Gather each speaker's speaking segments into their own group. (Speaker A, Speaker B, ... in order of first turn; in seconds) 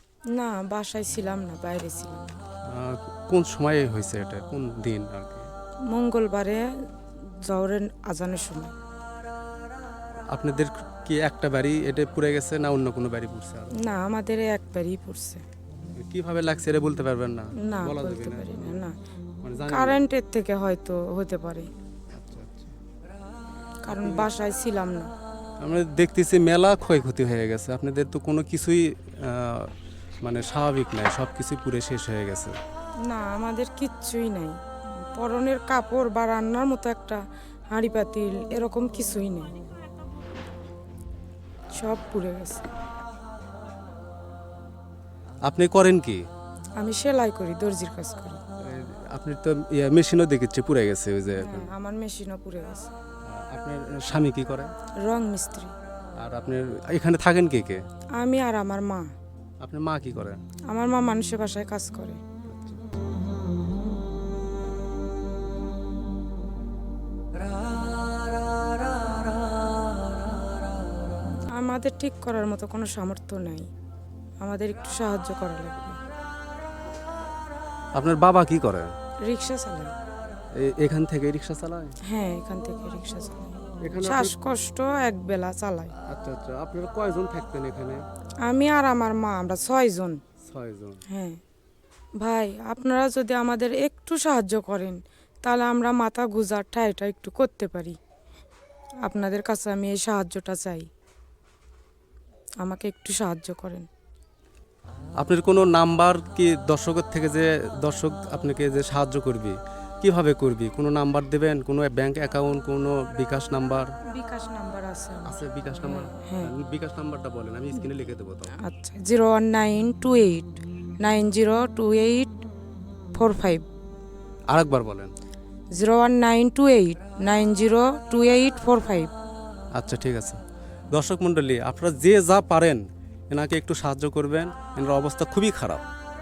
Speaker A: 0.3-2.3, 5.9-6.7, 7.5-8.7, 13.8-15.4, 17.6-19.0, 19.7-21.7, 23.9-25.1, 33.1-34.6, 35.2-39.6, 41.7-42.7, 46.8-48.4, 51.4-52.9, 55.0-55.7, 58.2-59.1, 60.7-62.2, 71.5-73.7, 74.4-76.0, 79.2-79.9, 82.0-85.9, 88.4-90.2, 91.1-91.4, 92.2-98.0, 99.0-100.9, 102.6-103.9, 114.1-116.5, 118.6-122.4, 123.1-123.6, 125.8-129.1
Speaker B: 2.7-5.5, 10.3-13.8, 16.0-18.8, 19.4-20.0, 22.1-22.8, 23.9-24.3, 25.6-32.5, 45.5-46.2, 48.6-51.7, 53.3-54.7, 56.2-57.8, 59.6-60.4, 62.5-62.8, 78.0-78.9, 80.6-81.9, 83.8-84.3, 86.0-88.0, 90.4-91.0, 105.2-113.9, 115.2-118.5, 124.5-125.1, 129.8-130.4, 130.9-135.8